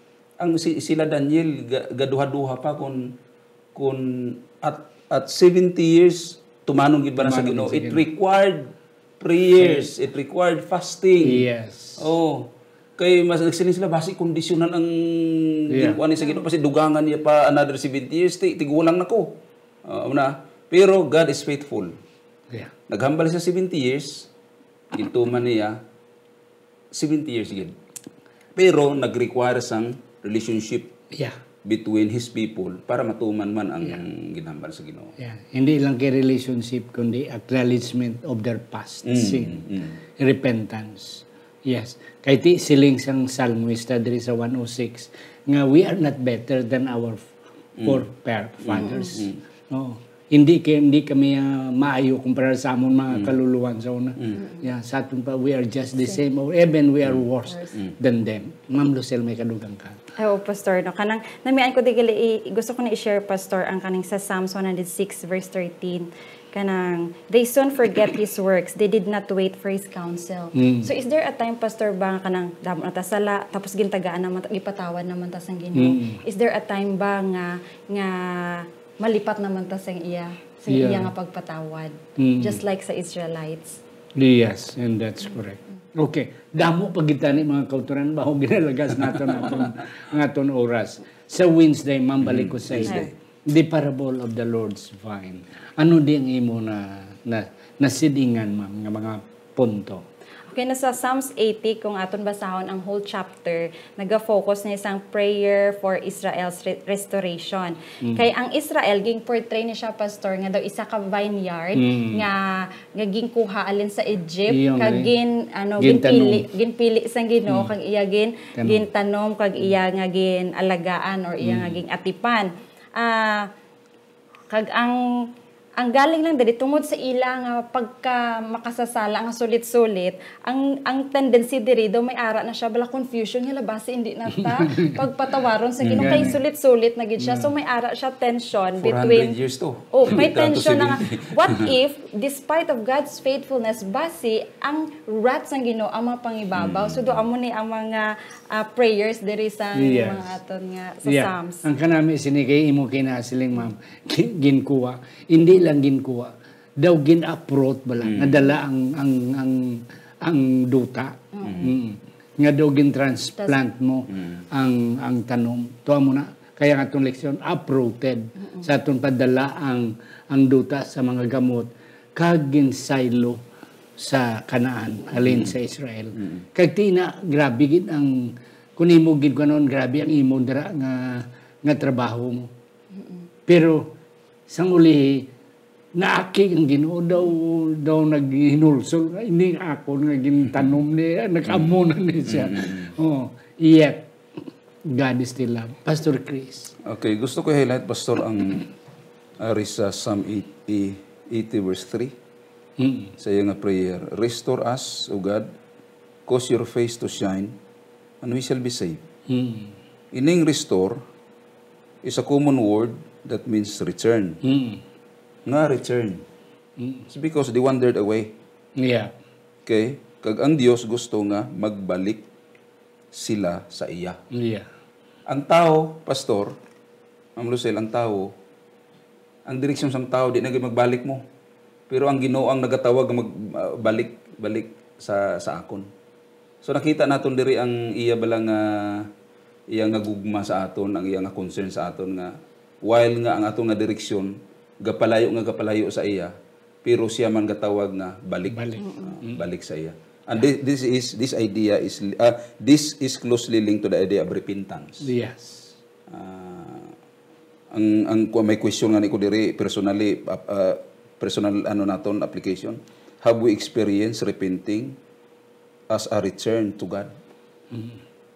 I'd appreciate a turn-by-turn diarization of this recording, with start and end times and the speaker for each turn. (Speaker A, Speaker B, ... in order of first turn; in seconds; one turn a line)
Speaker A: 0.4-3.1
Speaker A: 3.7-11.5
Speaker B: 7.2-8.1
Speaker B: 11.2-12.1
Speaker A: 12.0-22.0
Speaker B: 15.7-16.0
Speaker A: 22.9-24.3
Speaker A: 24.9-25.8
Speaker A: 26.9-27.8
Speaker A: 28.5-30.9
Speaker B: 31.1-31.4
Speaker A: 31.6-35.1
Speaker B: 35.2-39.6
Speaker A: 39.0-40.0
Speaker B: 40.1-60.0
Speaker A: 47.8-48.0
Speaker A: 48.6-49.4
Speaker C: 48.8-49.1
Speaker C: 54.4-54.6
Speaker C: 60.2-83.8
Speaker B: 70.5-70.9
Speaker B: 75.7-76.2
Speaker B: 80.7-81.1
Speaker B: 82.2-82.6
Speaker B: 84.2-100.0
Speaker A: 92.2-93.1
Speaker C: 100.5-123.5
Speaker B: 111.8-112.3
Speaker B: 114.5-115.1
Speaker B: 115.8-116.5
Speaker B: 118.5-118.8
Speaker C: 124.5-139.3
Speaker B: 134.4-135.0
Speaker A: 135.8-136.3
Speaker B: 135.9-136.4
Speaker B: 137.2-137.5
Speaker A: 138.8-141.7
Speaker C: 139.9-151.7
Speaker A: 146.6-147.2
Speaker B: 149.7-150.3
Speaker B: 151.0-173.4
Speaker A: 158.0-158.4
Speaker C: 161.3-161.7
Speaker A: 161.4-161.7
Speaker A: 164.2-164.4
Speaker B: 174.0-182.5
Speaker B: 183.4-183.9
Speaker B: 184.5-185.3
Speaker B: 185.9-196.7
Speaker A: 191.5-191.7
Speaker A: 192.2-192.9
Speaker A: 196.8-198.7
Speaker A: 199.4-202.1
Speaker B: 202.8-203.1
Speaker A: 203.2-205.5
Speaker A: 206.3-207.6
Speaker A: 208.2-209.0
Speaker B: 209.3-209.8
Speaker A: 210.1-211.0
Speaker A: 212.0-214.4
Speaker B: 214.4-214.8
Speaker A: 215.4-216.2
Speaker B: 216.8-217.1
Speaker A: 217.1-218.3
Speaker B: 218.8-219.1
Speaker A: 219.7-222.2
Speaker A: 223.1-224.2
Speaker B: 224.3-224.7
Speaker A: 225.3-226.6
Speaker A: 227.3-228.3
Speaker A: 229.4-231.2
Speaker A: 231.9-235.9
Speaker A: 236.6-239.1
Speaker A: 239.7-246.3
Speaker A: 246.8-255.1
Speaker B: 248.4-249.4
Speaker C: 248.8-249.1
Speaker B: 255.0-255.8
Speaker A: 256.1-256.9
Speaker A: 257.7-265.0
Speaker A: 265.9-267.1
Speaker B: 267.7-268.0